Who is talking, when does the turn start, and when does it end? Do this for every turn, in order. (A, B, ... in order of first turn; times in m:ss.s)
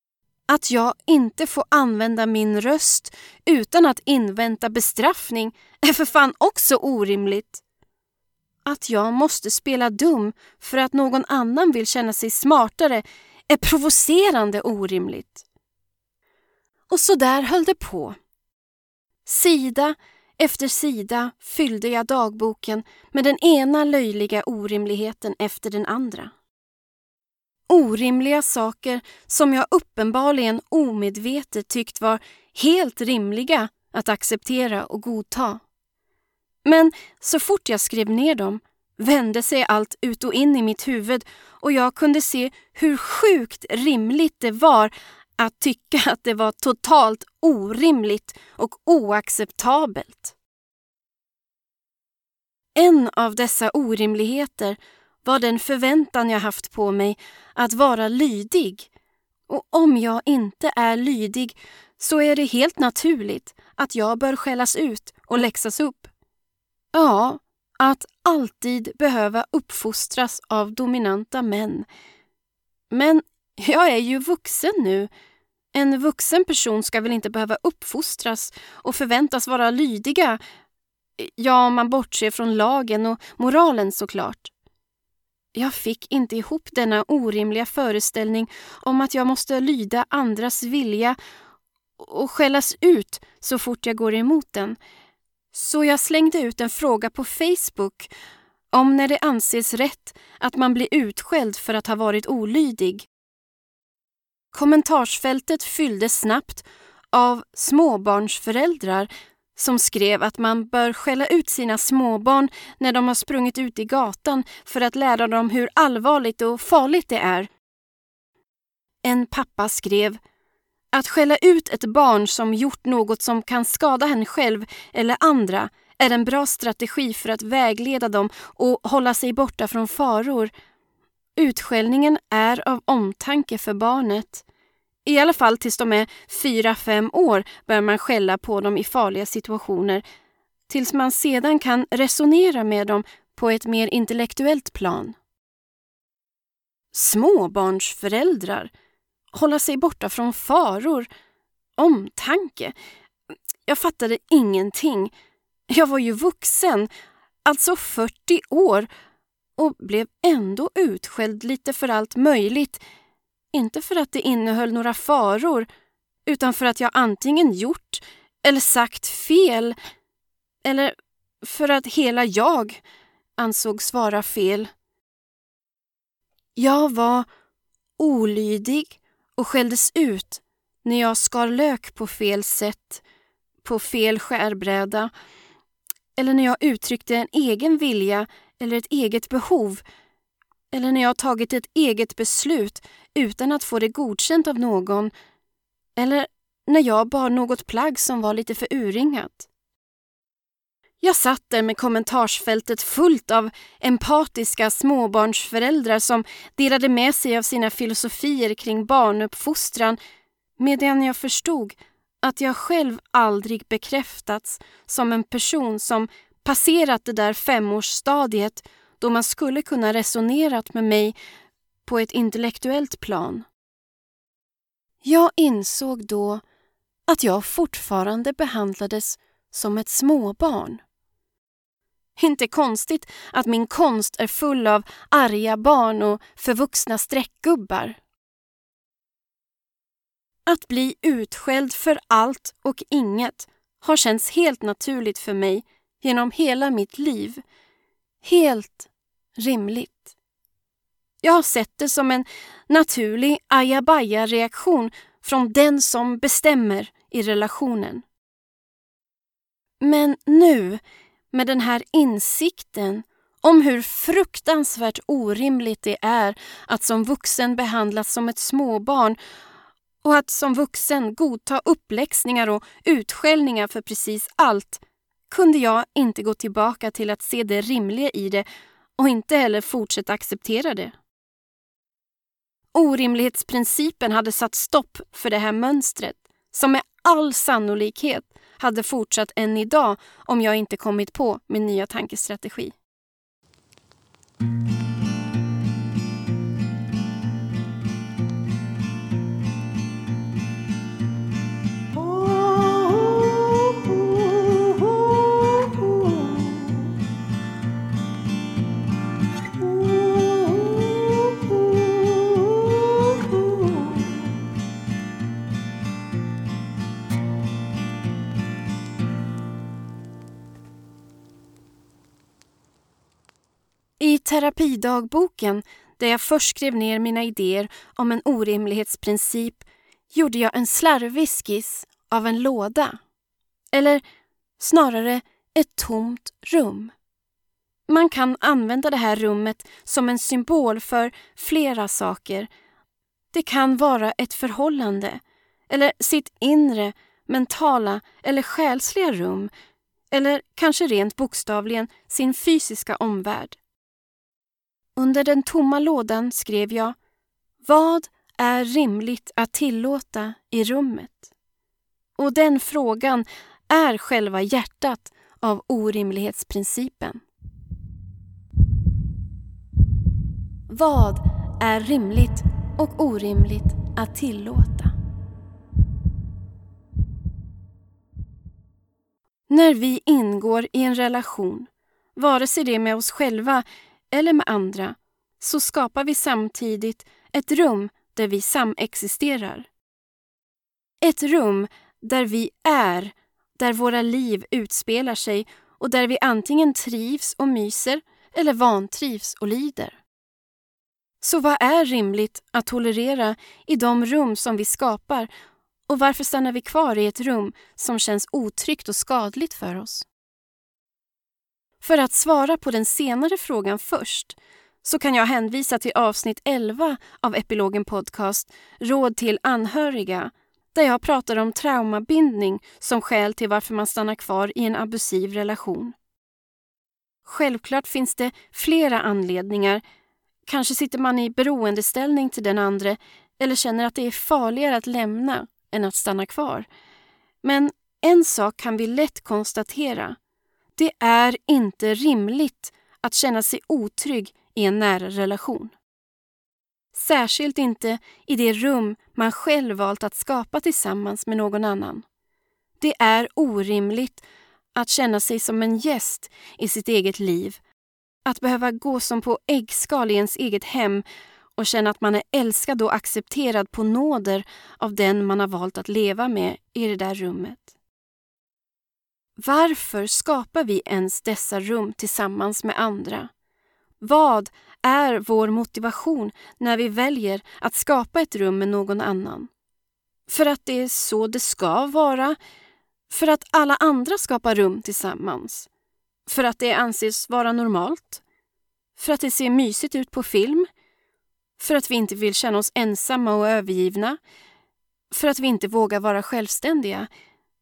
0:00.5-0:07.6 A
0:08.6-0:15.4 A
0:16.9-0:18.2 A
0:19.2-0:26.3 A
0:27.7-0:35.6 A
0:36.6-0:50.3 A
0:52.8-0:58.9 A
0:59.5-1:06.1 A
1:06.9-1:11.8 A
1:12.9-1:15.1 A
1:15.7-1:20.4 A
1:21.2-1:24.5 A
1:25.5-1:31.2 A
1:32.0-1:34.8 A
1:35.5-1:38.1 A
1:38.7-1:43.1 A
1:44.5-1:57.5 A
1:59.0-2:00.2 A
2:00.9-2:10.5 A
2:11.4-2:14.4 A
2:15.0-2:20.0 A
2:20.7-2:25.1 A
2:26.9-2:28.7 A
2:29.3-2:31.1 A
2:31.8-2:32.7 A
2:33.6-2:35.1 A
2:35.7-2:36.9 A
2:37.4-2:38.9 A
2:39.6-2:42.8 A
2:43.5-2:45.7 A
2:46.3-2:49.7 A
2:50.6-2:52.8 A
2:53.4-2:54.7 A
2:56.6-2:57.2 A
2:58.0-3:03.0 A
3:03.6-3:05.1 A
3:06.2-3:09.8 A
3:10.7-3:15.1 A
3:16.0-3:19.5 A
3:21.0-3:30.0 A
3:30.6-3:41.1 A
3:41.8-3:43.4 A
3:45.0-3:46.4 A
3:47.1-3:50.8 A
3:52.2-3:58.0 A
4:00.5-4:07.4 A
4:08.2-4:10.1 A
4:11.2-4:18.0 A
4:19.8-4:20.8 A
4:21.3-4:29.2 A
4:30.0-4:38.4 A
4:39.0-4:40.9 A
4:42.7-4:52.7 A
5:02.5-5:04.7 A
5:05.6-5:06.3 A
5:10.3-5:11.5 A
5:24.0-5:33.0 A
5:33.7-5:34.0 A
5:34.6-5:36.9 A
5:37.9-5:42.5 A
5:43.3-5:49.5 A
5:50.1-5:53.6 A
5:55.0-5:57.0 A
5:57.6-6:01.3 A
6:02.2-6:07.2 A
6:10.7-6:14.9 A
6:19.5-6:29.7 A
6:31.0-6:40.0 A
6:41.2-6:45.3 A
6:45.9-6:50.1 A
6:51.8-7:05.9 A
7:07.2-7:09.8 A
7:10.4-7:16.7 A
7:17.4-7:20.2 A
7:20.8-7:25.7 A
7:26.9-7:32.0 A
7:32.8-7:34.2 A
7:34.7-7:37.6 A
7:38.2-7:41.0 A
7:41.5-7:47.7 A
7:49.4-7:53.3 A
7:54.0-7:59.5 A
8:00.3-8:02.4 A
8:03.1-8:05.7 A
8:06.2-8:08.2 A
8:09.0-8:10.7 A
8:11.6-8:14.2 A
8:15.1-8:17.1 A